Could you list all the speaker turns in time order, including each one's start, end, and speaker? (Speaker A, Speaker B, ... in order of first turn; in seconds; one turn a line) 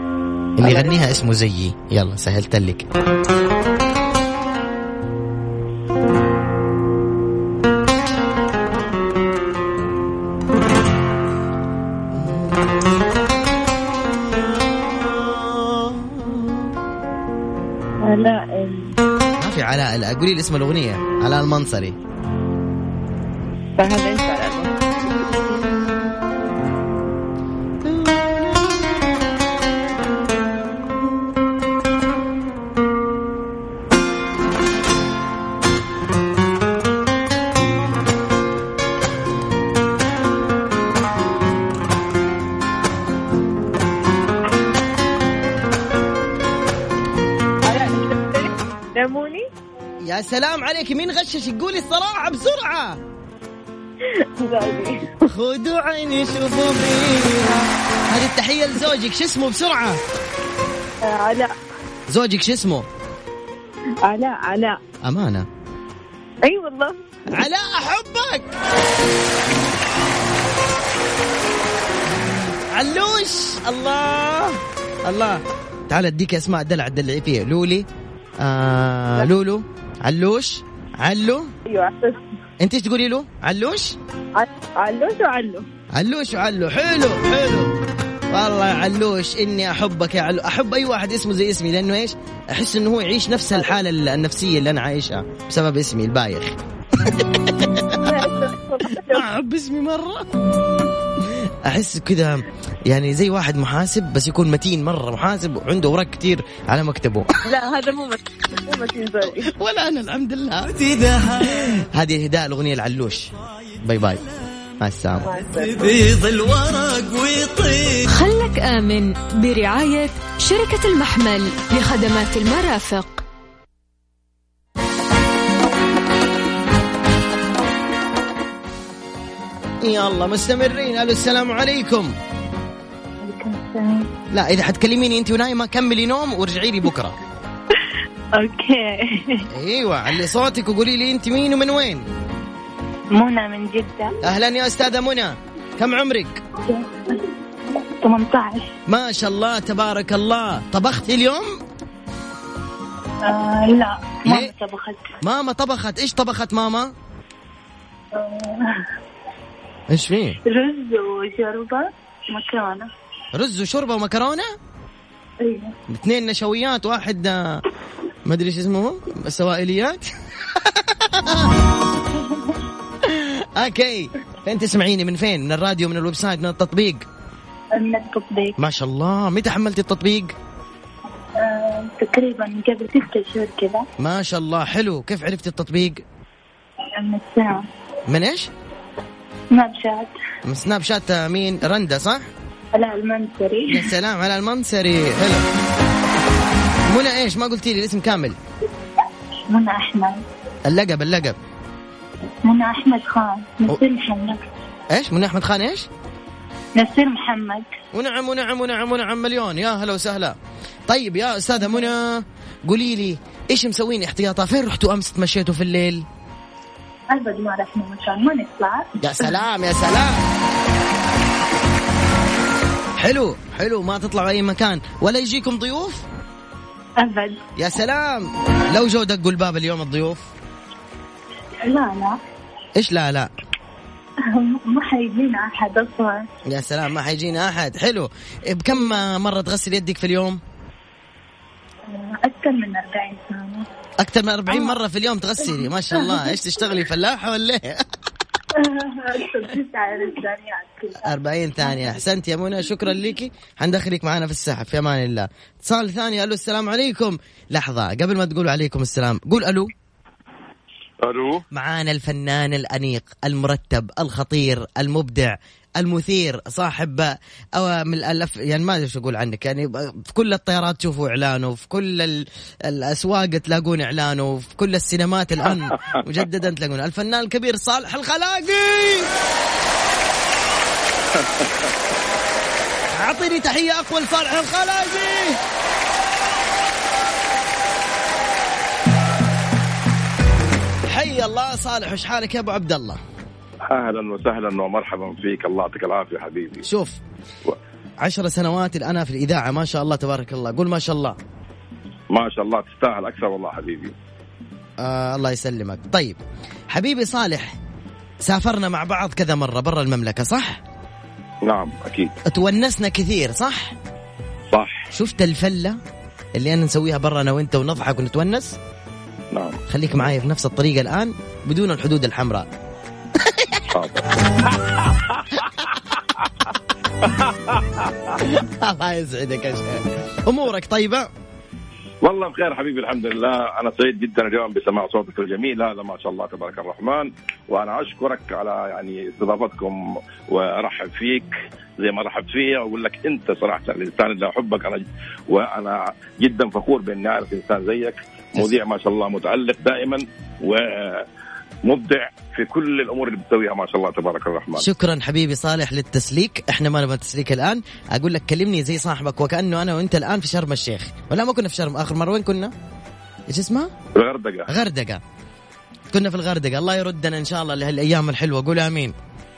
Speaker A: 0.6-2.9
Speaker A: 12.1-13.1
Speaker A: 14.1-16.7
Speaker B: 18.1-18.9
Speaker A: 19.4-22.0
Speaker B: 23.8-24.7
Speaker A: 25.1-26.4
Speaker A: 27.9-28.9
Speaker B: 47.7-49.4
Speaker A: 50.0-53.0
Speaker B: 54.4-55.2
Speaker A: 55.2-60.0
Speaker B: 61.0-61.5
Speaker A: 62.1-62.9
Speaker B: 64.0-64.8
Speaker A: 65.0-65.5
Speaker B: 66.5-67.0
Speaker A: 67.3-68.5
Speaker A: 72.4-77.9
Speaker A: 78.4-81.5
Speaker B: 81.7-82.2
Speaker A: 82.6-84.0
Speaker B: 84.4-85.6
Speaker A: 85.9-87.8
Speaker A: 88.3-98.2
Speaker B: 98.0-99.2
Speaker A: 98.9-100.3
Speaker A: 101.2-107.3
Speaker B: 107.5-109.5
Speaker A: 109.2-114.2
Speaker A: 114.8-118.1
Speaker B: 115.3-115.9
Speaker C: 118.1-123.2
Speaker A: 129.8-132.1
Speaker D: 133.2-134.1
Speaker A: 134.3-137.2
Speaker D: 138.4-139.5
Speaker A: 139.5-142.1
Speaker D: 143.1-144.2
Speaker A: 144.2-146.4
Speaker D: 146.6-147.3
Speaker D: 148.0-148.7
Speaker A: 148.9-151.5
Speaker D: 153.2-155.1
Speaker A: 154.2-154.5
Speaker A: 155.2-156.9
Speaker D: 158.1-158.9
Speaker A: 159.9-160.4
Speaker D: 160.4-162.9
Speaker A: 163.3-164.5
Speaker D: 165.4-165.7
Speaker A: 165.9-167.6
Speaker A: 168.2-171.6
Speaker D: 172.2-172.6
Speaker A: 173.0-177.1
Speaker D: 177.8-178.6
Speaker A: 178.6-180.3
Speaker D: 181.4-183.9
Speaker A: 184.0-186.0
Speaker D: 186.9-187.6
Speaker A: 188.1-188.5
Speaker D: 189.5-190.1
Speaker A: 190.4-192.2
Speaker D: 192.8-193.9
Speaker A: 193.7-195.5
Speaker A: 196.9-198.4
Speaker D: 199.5-200.2
Speaker A: 200.7-201.4
Speaker D: 202.4-204.4
Speaker A: 204.9-205.9
Speaker D: 206.8-207.7
Speaker A: 207.9-210.4
Speaker A: 210.9-216.1
Speaker D: 217.1-219.3
Speaker A: 219.0-220.2
Speaker A: 223.0-226.0
Speaker D: 227.0-227.5
Speaker A: 227.6-230.3
Speaker D: 231.6-232.2
Speaker A: 232.8-233.3
Speaker D: 234.2-236.3
Speaker A: 236.5-240.4
Speaker D: 241.9-243.7
Speaker A: 244.0-247.8
Speaker D: 245.5-246.3
Speaker D: 248.5-251.1
Speaker A: 251.0-259.7
Speaker D: 251.7-252.0
Speaker E: 261.0-261.4
Speaker A: 261.5-279.1
Speaker E: 281.1-281.7
Speaker A: 282.9-285.4
Speaker A: 290.9-293.0
Speaker E: 293.7-296.6
Speaker A: 296.6-297.0
Speaker A: 298.0-301.2
Speaker E: 302.1-303.9
Speaker A: 304.8-306.2
Speaker A: 306.7-307.6
Speaker A: 308.2-310.6
Speaker E: 311.4-312.1
Speaker A: 312.2-313.8
Speaker E: 314.5-314.9
Speaker A: 314.9-315.8
Speaker A: 316.4-318.6
Speaker E: 319.3-319.6
Speaker A: 319.7-322.5
Speaker A: 323.2-323.6
Speaker E: 323.7-325.6
Speaker E: 327.0-328.2
Speaker A: 328.2-331.1
Speaker E: 332.0-351.1
Speaker E: 351.6-354.7
Speaker A: 354.6-362.5
Speaker A: 363.3-363.7
Speaker E: 363.9-364.5
Speaker A: 364.5-365.0
Speaker A: 365.9-368.9